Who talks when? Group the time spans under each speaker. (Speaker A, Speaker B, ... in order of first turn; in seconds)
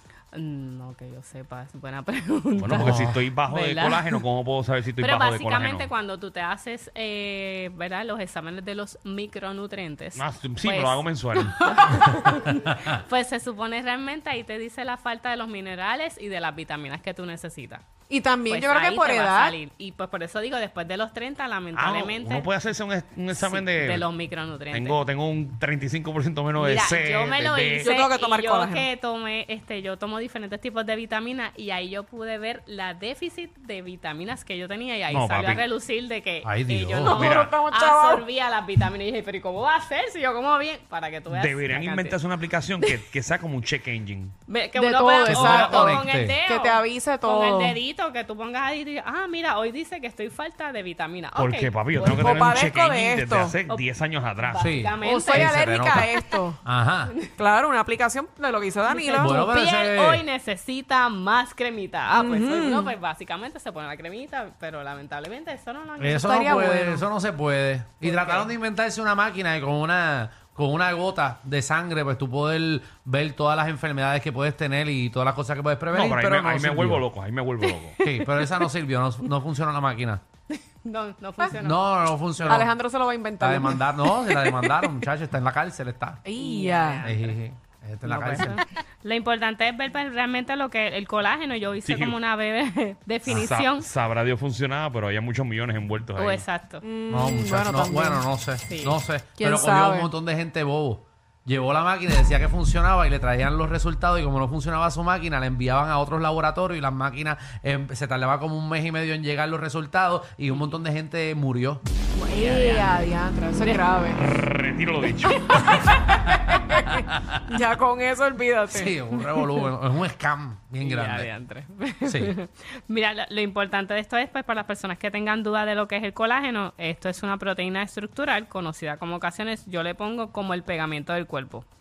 Speaker A: 0.3-4.2, 5.0-17.8, 18.4-22.5, 23.3-25.0, 26.6-42.2, 44.5-52.6, 54.4-56.1, 58.9-66.7, 68.0-68.5, 78.0-78.2, 80.5-81.8, 86.4-87.4, 88.0-93.9, 96.2-96.8, 98.7-99.0, 112.3-113.8, 120.8-131.7
Speaker B: 2.6-5.9, 10.2-11.6, 21.7-24.1, 24.7-27.9, 35.1-35.6, 41.3-44.3, 51.3-54.7, 75.9-78.0, 91.8-92.2, 93.3-96.4, 114.2-116.0
Speaker C: 2.7-3.2, 36.4-37.4, 45.2-46.4, 54.6-57.1, 59.2-60.2, 66.0-77.0, 78.0-80.2, 81.6-82.7, 83.4-86.2, 87.0-88.6, 97.1-111.8, 116.3-117.3, 118.7-121.3, 122.0-122.3
Speaker D: 18.1-19.6, 27.8-28.9, 37.0-38.2, 44.7-47.8, 52.0-53.5, 55.0-56.6, 57.4-59.4, 62.2-62.9, 66.2-67.0, 82.5-84.8, 86.2-87.0, 96.8-98.2, 99.4-100.1, 112.1-114.2, 115.3-119.5